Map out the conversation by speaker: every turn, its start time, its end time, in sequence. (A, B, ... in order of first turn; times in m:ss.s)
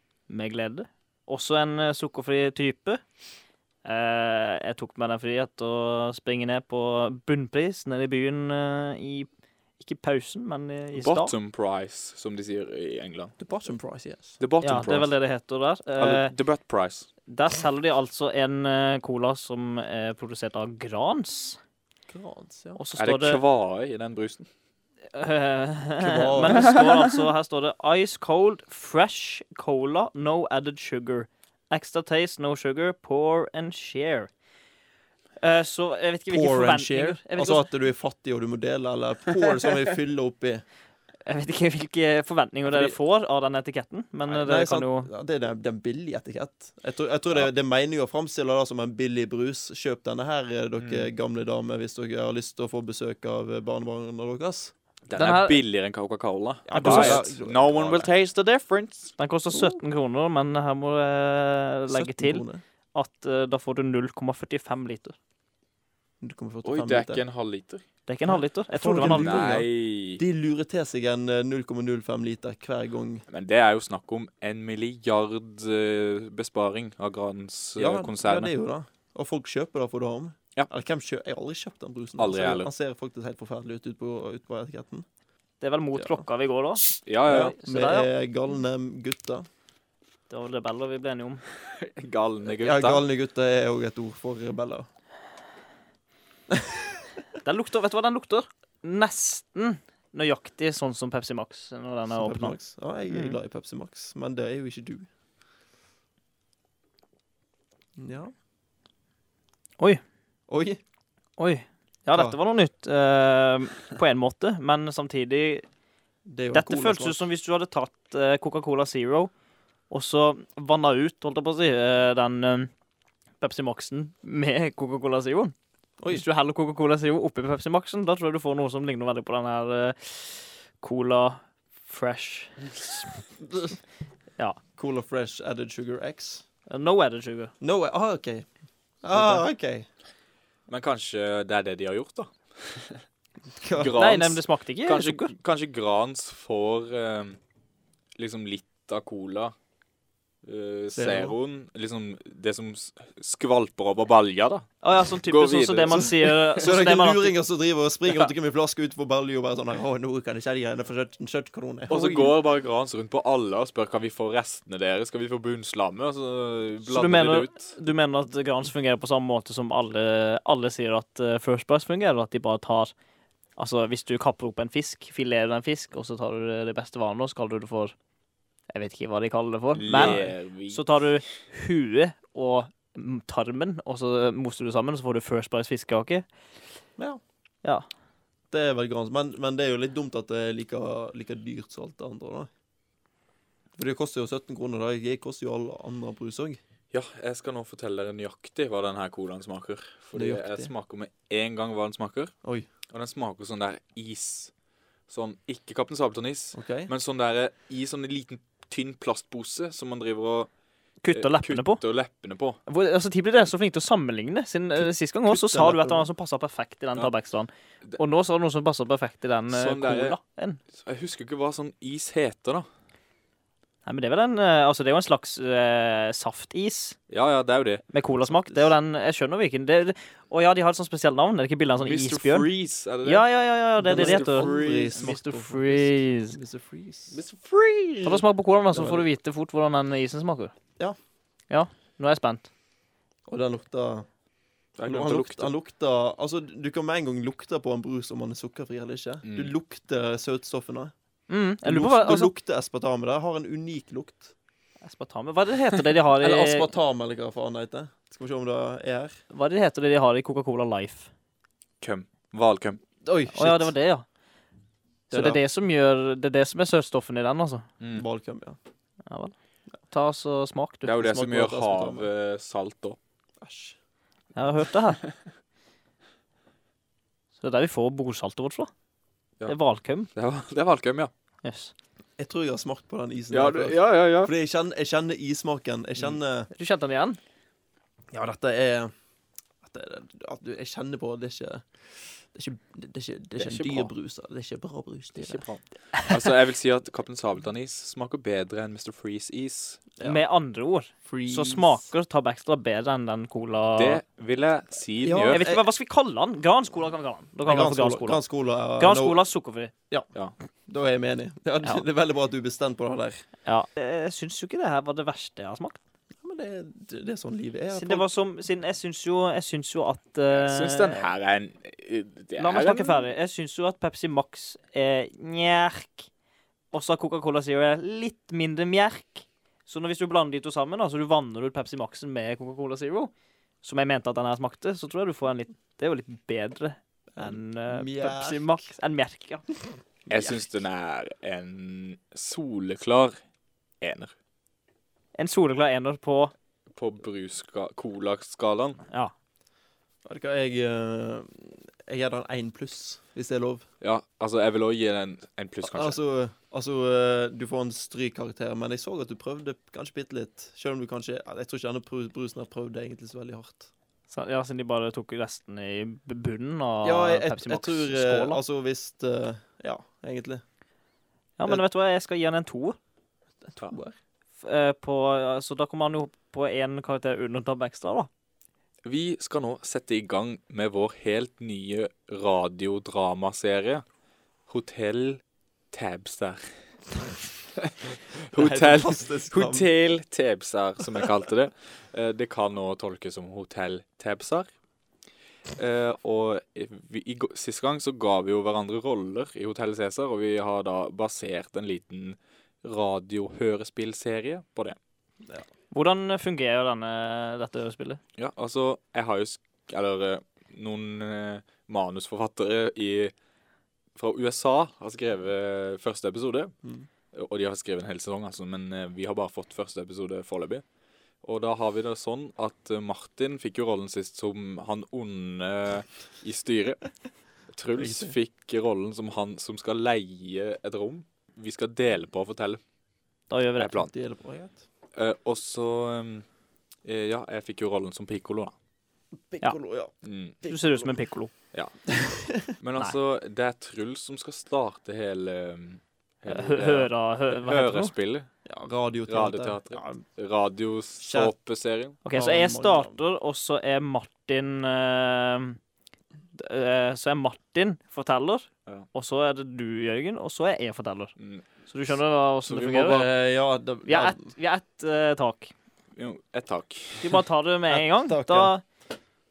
0:00.3-0:03.0 A
0:03.8-0:11.3 A
0:11.0-0:13.3 B
0:13.4-0:14.4 C
0:14.4-0:15.1 B
0:14.6-0:16.3 A
0:16.0-0:17.1 B
0:17.3-0:21.6 A
0:22.1-0:22.8 C
0:22.8-0:23.4 A
0:23.0-0:24.5 B
0:25.1-0:34.3 A
0:26.0-0:26.8 C
0:35.4-0:37.7 A
0:36.3-0:40.6 C
0:41.3-0:45.1 A
0:42.7-0:43.0 C
0:44.3-0:54.7 C
0:50.8-0:51.1 B
0:55.1-0:59.2 B
0:55.2-0:55.6 A
0:56.7-0:58.1 C
0:56.7-0:57.2 A
0:59.2-1:05.2 A
0:59.5-0:59.8 C
1:01.9-1:02.6 C
1:06.2-1:07.2 C
1:06.6-1:07.8 B
1:08.1-1:09.5 A
1:08.3-1:13.2 C
1:09.0-1:10.2 B
1:13.3-1:18.5 B
1:17.8-1:25.1 C
1:22.2-1:22.7 B
1:25.6-1:28.1 A
1:26.0-1:26.2 C
1:27.0-1:27.6 B
1:27.3-1:29.5 C
1:30.3-1:31.4 A
1:31.7-1:33.0 B
1:32.4-1:34.9 C
1:36.5-1:37.0 C
1:37.4-1:42.6 A
1:42.1-1:45.1 C
1:43.1-1:43.4 A
1:48.0-1:48.3 C
1:50.5-1:50.8 C
1:51.4-1:55.7 A
1:56.3-1:57.2 C
1:56.5-1:59.3 A
1:59.9-2:02.7 A
2:03.4-2:05.6 A
2:06.1-2:13.1 A
2:13.5-2:13.8 C
2:14.8-2:16.4 C
2:16.7-2:17.5 A
2:17.6-2:18.5 C
2:19.0-2:19.9 C
2:20.7-2:23.0 B
2:23.5-2:24.0 C
2:23.7-2:27.4 B
2:24.0-2:25.3 A
2:28.2-2:29.5 B
2:30.4-2:36.3 B
2:30.9-2:31.4 C
2:34.8-2:37.3 A
2:35.9-2:42.4 C
2:41.9-2:47.8 B
2:46.8-2:52.9 A
2:53.6-2:57.9 A
2:58.7-3:06.3 A
2:59.8-3:00.8 B
2:59.9-3:00.2 C
3:08.5-3:12.5 C
3:13.8-3:16.6 C
3:16.9-3:22.3 B
3:20.2-3:20.7 C
3:22.9-3:24.5 B
3:25.1-3:30.5 B
3:26.5-3:26.9 C
3:31.0-3:31.8 A
3:31.1-3:32.6 B
3:32.7-3:40.6 A
3:34.8-3:36.1 C
3:39.5-3:40.2 B
3:40.7-3:42.7 B
3:43.9-3:47.0 A
3:47.1-3:47.8 B
3:47.9-3:52.5 A
3:48.2-3:48.7 C
3:51.8-3:53.3 B
3:53.0-3:56.4 A
3:53.8-3:55.1 B
3:53.8-3:57.2 C
3:57.1-3:58.2 B
3:58.0-4:00.5 A
3:58.7-3:59.1 C
4:01.5-4:02.5 A
4:03.3-4:04.1 C
4:04.8-4:05.5 B
4:04.8-4:10.9 C
4:09.2-4:09.5 B
4:11.3-4:12.3 A
4:11.6-4:14.3 C
4:14.8-4:16.7 A
4:16.2-4:19.2 C
4:19.3-4:21.1 A
4:21.8-4:22.8 B
4:23.0-4:23.7 C
4:23.3-4:24.0 A
4:25.1-4:25.4 C
4:25.1-4:27.7 A
4:27.9-4:28.6 C
4:29.1-4:29.3 A
4:29.9-4:31.0 A
4:30.8-4:33.0 B
4:31.0-4:32.1 C
4:33.4-4:33.8 C
4:34.4-4:35.0 A
4:37.4-4:38.7 A
4:39.5-4:40.1 A
4:40.1-4:41.1 B
4:41.4-4:41.7 A
4:42.2-4:46.5 C
4:43.3-4:44.3 B
4:46.5-4:47.2 A
4:48.1-4:48.9 C
4:49.6-4:55.5 C
4:53.4-4:53.9 B
4:55.2-4:59.9 B
5:00.0-5:04.0 A
5:01.1-5:01.9 C
5:03.8-5:05.4 B
5:05.0-5:05.6 C
5:05.3-5:08.2 A
5:07.4-5:09.2 C
5:08.8-5:09.7 A
5:10.7-5:13.2 C
5:13.5-5:15.8 A
5:16.2-5:18.1 C
5:17.7-5:21.1 A
5:20.3-5:23.1 B
5:22.4-5:26.1 A
5:26.7-5:33.1 A
5:33.6-5:39.5 A
5:37.1-5:38.7 C
5:40.1-5:43.2 B
5:43.8-5:44.1 B
5:45.2-5:46.3 A
5:46.7-5:48.8 B
5:50.0-5:53.7 C
5:53.8-5:56.0 B
5:55.6-6:03.7 C
6:04.1-6:08.4 A
6:06.8-6:10.4 C
6:11.4-6:12.8 A
6:13.4-6:14.0 C
6:14.4-6:18.1 A
6:18.8-6:23.8 B
6:24.5-6:25.2 B
6:25.7-6:26.4 B
6:27.6-6:34.5 B
6:28.3-6:29.7 C
6:35.5-6:44.8 B
6:45.7-6:48.0 A
6:48.2-6:53.1 B
6:54.0-6:56.5 B
6:57.1-7:00.6 B
7:01.2-7:06.8 B
7:07.5-7:12.6 B
7:07.8-7:08.2 C
7:13.3-7:13.9 A
7:13.6-7:13.9 B
7:13.8-7:14.6 C
7:15.0-7:16.3 B
7:16.8-7:18.5 B
7:19.3-7:20.9 C
7:20.0-7:20.4 B
7:20.5-7:21.3 A
7:21.5-7:28.3 B
7:21.9-7:22.5 C
7:26.3-7:27.9 A
7:28.5-7:30.0 C
7:29.1-7:32.0 B
7:31.0-7:31.3 C
7:32.0-7:35.6 A
7:32.1-7:33.0 C
7:36.4-7:41.1 A
7:41.2-7:41.4 B
7:41.7-7:43.1 A
7:42.5-7:43.1 B
7:42.9-7:44.2 C
7:43.9-7:45.5 A
7:46.0-7:47.2 B
7:47.0-7:48.6 A
7:47.7-7:48.5 C